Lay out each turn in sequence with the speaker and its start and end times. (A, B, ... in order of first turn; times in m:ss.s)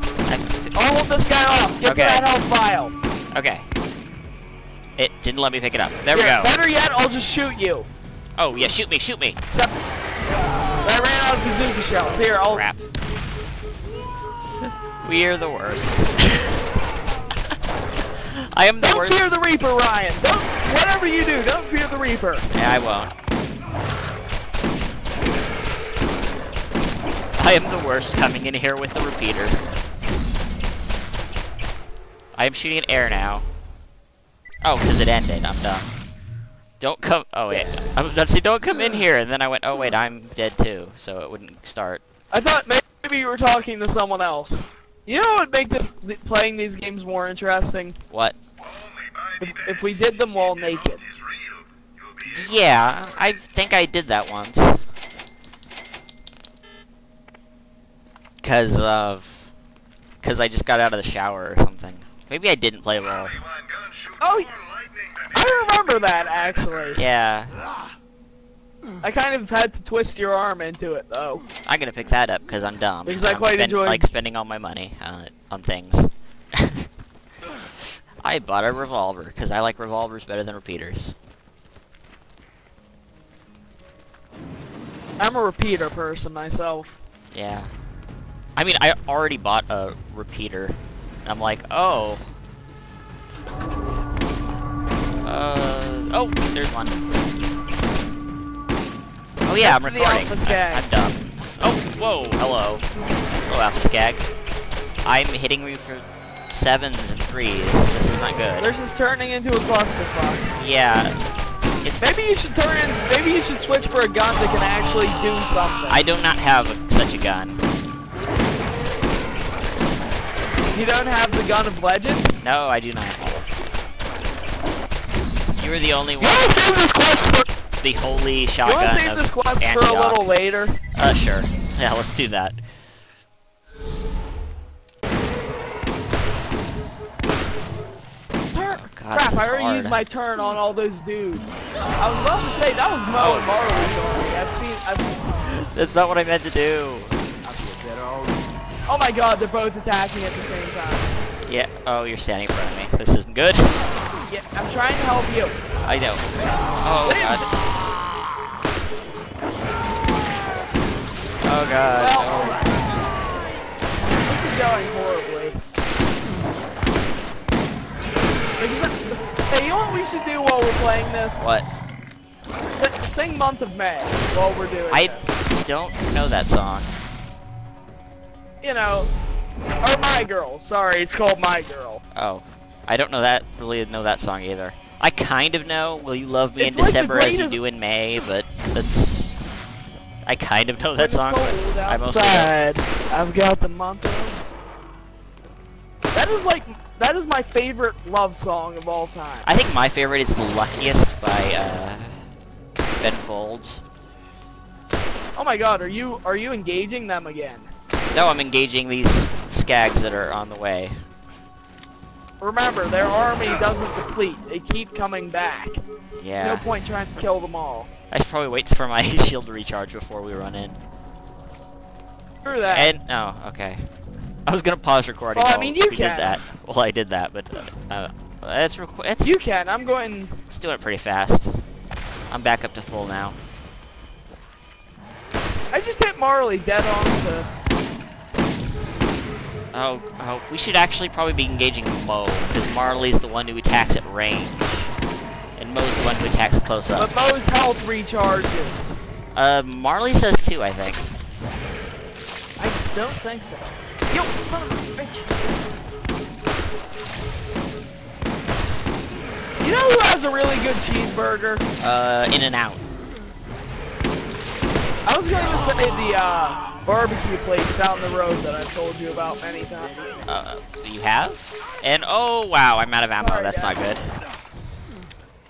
0:00.3-0:00.7 A
0:00.7-0:02.9 B
0:01.8-0:02.3 A
0:03.3-0:03.7 A
0:05.0-0:06.5 A
0:06.1-0:07.9 B
0:08.4-0:09.4 A
0:10.8-0:12.6 B
0:12.4-0:12.8 A
0:15.0-0:16.6 A
0:18.2-0:19.2 A
0:18.8-0:22.5 B
0:22.5-0:23.1 A
0:27.4-0:29.6 A
0:32.4-0:33.5 A
0:34.6-0:35.9 A
0:36.8-0:42.0 A
0:42.3-0:48.0 B
0:48.1-0:48.4 A
0:49.4-0:51.1 B
0:52.2-0:54.8 A
0:58.4-0:59.5 A
1:00.2-1:03.4 A
1:04.2-1:04.5 B
1:05.3-1:07.0 B
1:07.0-1:07.6 A
1:09.0-1:11.4 B
1:11.7-1:16.8 A
1:13.0-1:14.1 B
1:18.2-1:21.2 A
1:25.2-1:27.0 B
1:27.3-1:27.7 A
1:28.6-1:32.2 A
1:35.2-1:37.0 A
1:39.4-1:42.8 A
1:39.6-1:40.9 B
1:43.5-1:44.3 A
1:45.0-1:48.7 A
1:48.6-1:50.5 B
1:50.6-1:51.2 A
1:52.0-1:56.0 B
1:55.9-1:57.6 A
2:00.7-2:02.3 B
2:02.4-2:03.4 A
2:05.6-2:06.6 A
2:06.2-2:07.5 B
2:07.8-2:10.3 A
2:08.6-2:10.8 B
2:11.0-2:12.6 A
2:18.5-2:25.2 B
2:18.6-2:20.0 A
2:23.1-2:24.0 A
2:25.4-2:27.2 A
2:28.9-2:31.1 B
2:31.4-2:33.8 A
2:34.2-2:35.6 B
2:35.8-2:37.5 A
2:37.0-2:37.5 B
2:41.4-2:42.6 A
2:42.0-2:42.6 B
2:44.2-2:45.6 B
2:48.6-2:51.4 B
2:51.4-2:51.7 A
2:52.8-2:55.3 B
2:54.9-2:56.9 A
2:58.6-2:59.1 B
2:59.8-3:02.0 B
3:02.2-3:09.3 A
3:06.6-3:07.6 B
3:10.3-3:12.5 A
3:11.0-3:14.4 B
3:16.1-3:19.5 B
3:19.4-3:22.2 A
3:23.0-3:23.8 A
3:25.4-3:27.7 B
3:28.1-3:31.0 A
3:32.4-3:35.8 B
3:36.2-3:36.7 A
3:36.4-3:37.9 B
3:38.1-3:40.8 A
3:42.4-3:43.0 B
3:42.7-3:43.9 A
3:44.5-3:49.4 A
3:45.3-3:46.4 B
3:49.2-3:50.4 B
3:50.5-3:51.6 A
3:52.3-3:53.4 A
3:55.7-3:57.5 B
3:59.7-4:04.9 A
4:05.6-4:07.1 A
4:07.0-4:09.0 B
4:09.4-4:11.2 A
4:12.6-4:15.6 B
4:19.6-4:21.6 B
4:21.8-4:22.8 A
4:25.1-4:30.2 B
4:30.3-4:34.1 A
4:33.2-4:33.8 B